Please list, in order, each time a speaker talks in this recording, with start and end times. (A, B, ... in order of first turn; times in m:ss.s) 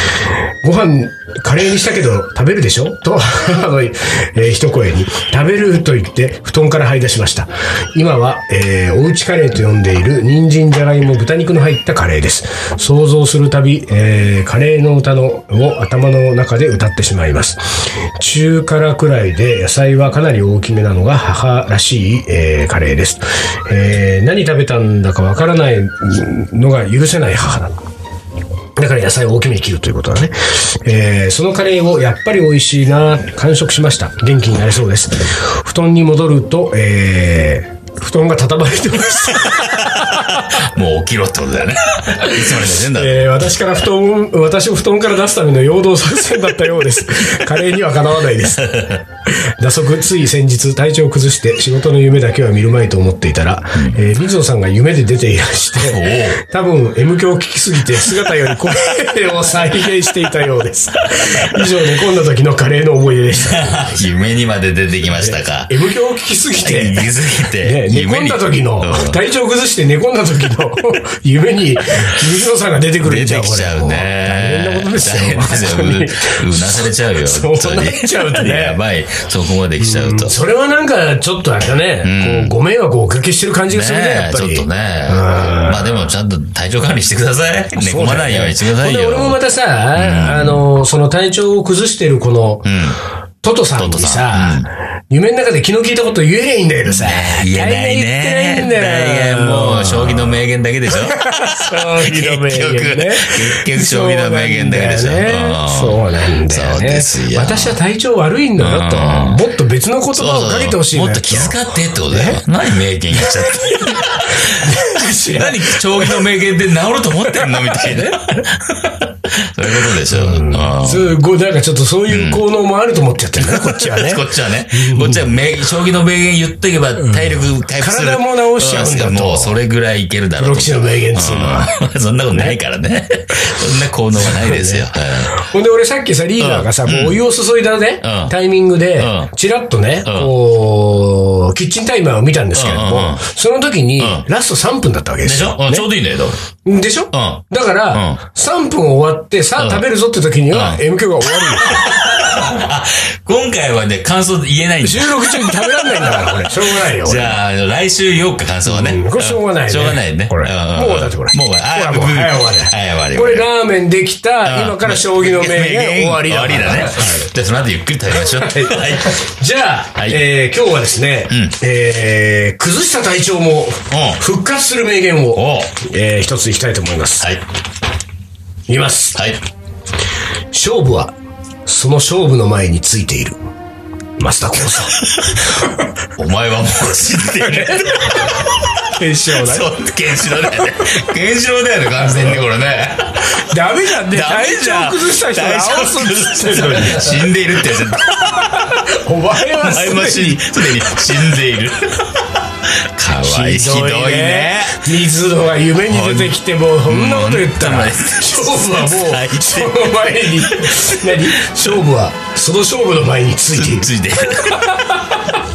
0:00.6-0:27.7 A
0:28.8-0:40.4 A
0:39.6-0:43.3 B
0:42.2-1:04.0 A
0:48.4-0:49.0 B
0:55.8-0:56.4 B
1:03.4-1:05.7 B
1:05.1-1:18.8 A
1:06.6-1:09.2 B
1:13.0-1:20.3 B
1:19.8-1:25.9 A
1:22.0-1:22.5 B
1:23.7-1:29.4 B
1:27.8-1:32.7 A
1:29.9-1:30.6 B
1:32.6-1:33.0 B
1:33.4-1:40.4 A
1:33.8-1:34.7 B
1:36.8-1:47.8 B
1:40.9-1:51.6 A
1:48.6-1:49.4 B
1:50.1-1:54.8 B
1:52.1-1:52.4 A
1:53.2-1:56.2 A
1:55.3-2:01.1 B
1:57.2-1:58.4 A
1:59.7-2:05.3 A
2:02.1-2:02.4 B
2:03.4-2:15.4 B
2:07.0-2:09.6 A
2:10.4-2:11.7 A
2:14.2-2:25.9 A
2:16.4-2:17.2 B
2:18.0-2:18.3 B
2:19.0-2:19.3 B
2:20.0-2:20.3 B
2:22.5-2:23.2 B
2:24.0-2:24.2 B
2:25.2-2:26.4 B
2:26.6-2:31.9 A
2:27.1-2:28.2 B
2:29.6-2:29.8 B
2:30.5-2:30.8 B
2:31.6-2:43.5 B
2:34.8-2:37.4 A
2:38.6-2:47.3 A
2:44.4-2:49.2 B
2:48.1-2:57.3 A
2:50.0-2:50.2 B
2:51.3-2:51.6 B
2:53.9-2:54.2 B
2:55.3-2:55.7 B
2:58.7-2:59.2 A
2:59.1-2:59.4 B
3:00.5-3:01.1 A
3:01.6-3:03.4 A
3:04.2-3:05.1 A
3:06.2-3:13.3 B
3:07.4-3:09.7 A
3:13.2-3:17.2 A
3:14.0-3:18.7 B
3:18.5-3:20.6 A
3:19.6-3:24.9 B
3:23.2-3:35.3 A
3:25.9-3:31.8 B
3:33.5-3:34.8 B